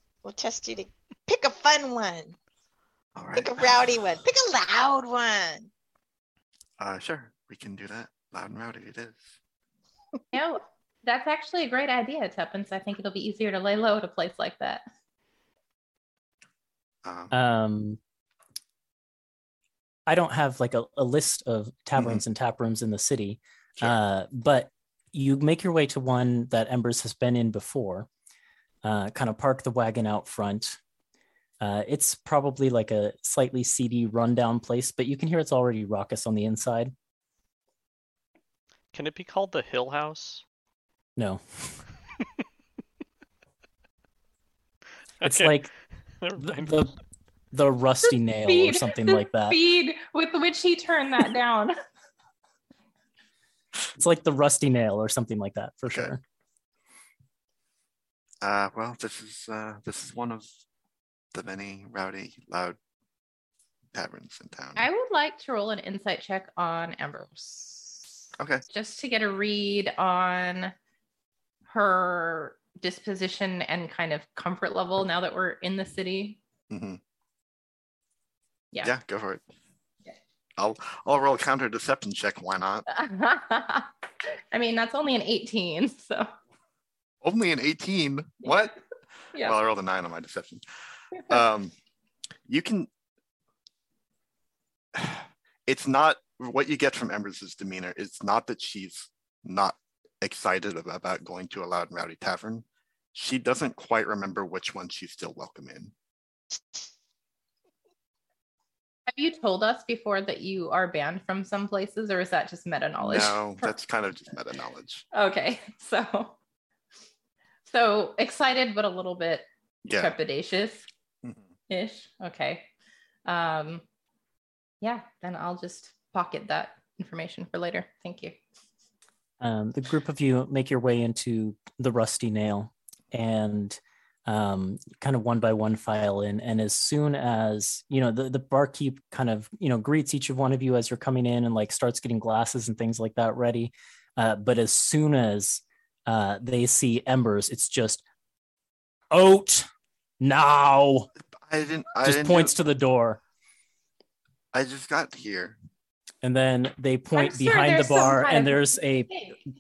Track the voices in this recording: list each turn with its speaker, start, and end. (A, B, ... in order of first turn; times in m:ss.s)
0:00.2-0:02.4 A
0:03.2-0:04.1 B
0:03.4-0:05.7 A
0:06.8-0:09.4 B
0:10.3-0:14.8 C
0:17.0-0:17.3 B
0:17.3-0:18.0 D
0:20.1-0:28.1 D
0:22.0-0:22.2 B
0:28.8-0:30.8 D
0:31.6-0:36.9 D
0:38.9-0:40.4 E
0:41.2-0:41.8 D
0:45.2-0:45.6 E
0:45.2-0:45.7 D
0:46.2-0:46.8 E
0:46.4-0:47.0 D
0:47.5-0:49.6 D
0:48.5-0:51.8 C
0:54.0-0:56.2 D
0:55.9-0:56.1 B
0:58.4-1:00.6 B
1:01.3-1:02.8 B
1:03.9-1:04.8 B
1:04.8-1:08.0 C
1:08.4-1:08.6 B
1:08.7-1:10.7 C
1:11.7-1:16.4 C
1:16.7-1:17.0 B
1:18.8-1:19.4 B
1:20.6-1:22.9 B
1:22.9-1:26.3 C
1:27.2-1:28.8 B
1:29.3-1:31.7 B
1:32.5-1:32.9 B
1:34.9-1:45.9 B
1:49.1-1:53.8 C
1:53.0-1:55.1 B
1:55.1-1:56.4 C
1:57.7-2:00.9 C
1:59.8-2:00.2 B
2:01.2-2:01.5 B
2:01.7-2:02.7 C
2:03.2-2:03.8 C
2:04.8-2:08.4 C
2:09.4-2:28.0 D
2:29.1-2:29.7 D
2:30.2-2:31.1 D
2:31.4-2:32.5 B
2:32.0-2:33.2 D
2:34.5-2:35.6 B
2:36.2-2:39.1 D
2:37.2-2:39.4 C